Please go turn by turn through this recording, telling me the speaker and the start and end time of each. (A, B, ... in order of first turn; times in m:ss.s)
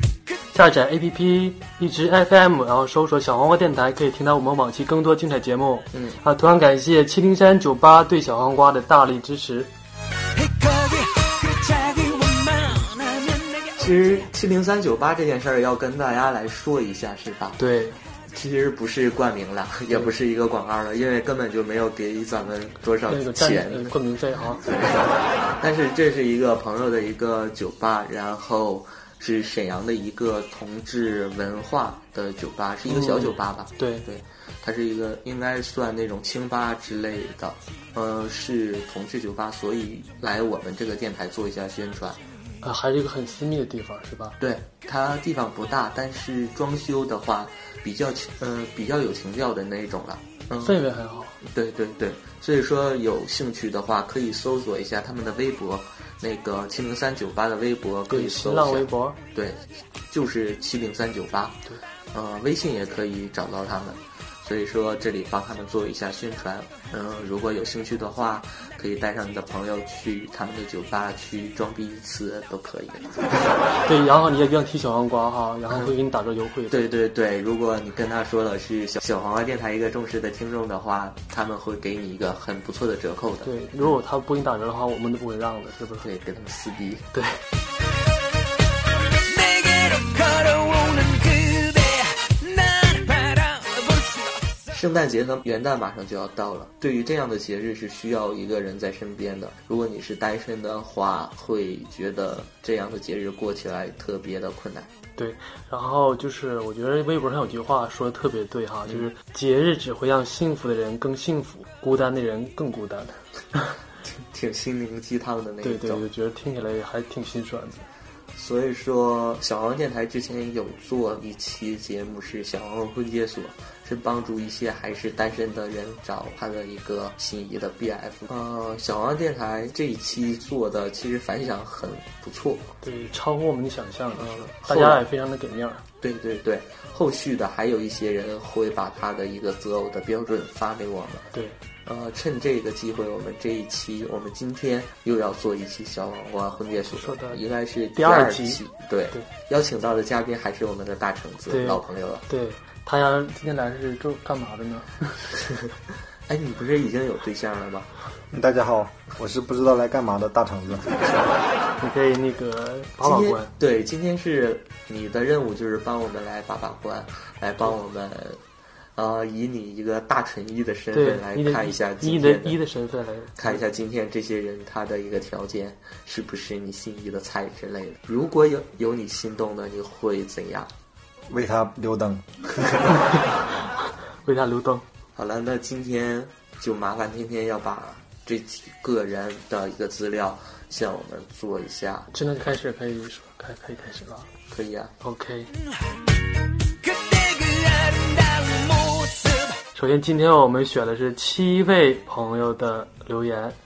0:00.5-0:09.7 A
0:05.9-0:06.2 B
0:10.4-0:14.3 C
0:13.8-0:17.6 B
0:17.6-0:18.0 A
0:18.3-0:24.0 B
0:23.1-0:24.6 A
0:24.5-0:42.2 B
0:32.9-0:34.1 A
0:42.6-0:44.4 A
0:44.4-0:50.8 B
0:50.6-0:51.4 A
0:51.4-1:13.2 B
0:58.1-0:59.2 A
1:13.8-1:16.8 A
1:16.7-1:23.9 B
1:23.4-1:26.1 A
1:26.0-1:27.0 B
1:27.1-1:27.4 A
1:29.2-1:34.5 C
1:34.7-1:44.9 B
1:45.2-1:53.2 A
1:54.0-1:56.0 B
1:55.6-1:57.9 A
1:58.4-2:12.7 B
2:12.8-2:15.8 A
2:14.2-2:15.0 B
2:16.0-2:21.3 B
2:21.3-2:21.6 A
2:21.8-2:32.2 B
2:27.0-2:27.4 A
2:28.0-2:28.6 A
2:31.5-2:35.4 A
2:36.3-2:37.9 B
2:38.3-2:41.0 D
2:41.8-2:43.5 A
2:43.0-2:48.4 B
2:49.0-2:52.6 B
2:50.9-2:53.6 A
2:53.4-3:00.7 B
3:01.3-3:02.5 D
3:03.0-3:03.7 A
3:04.2-3:04.8 A
3:05.2-3:12.1 B
3:12.1-3:14.3 A
3:14.5-3:14.9 B
3:15.0-3:15.5 A
3:16.8-3:19.6 C
3:19.8-3:23.6 A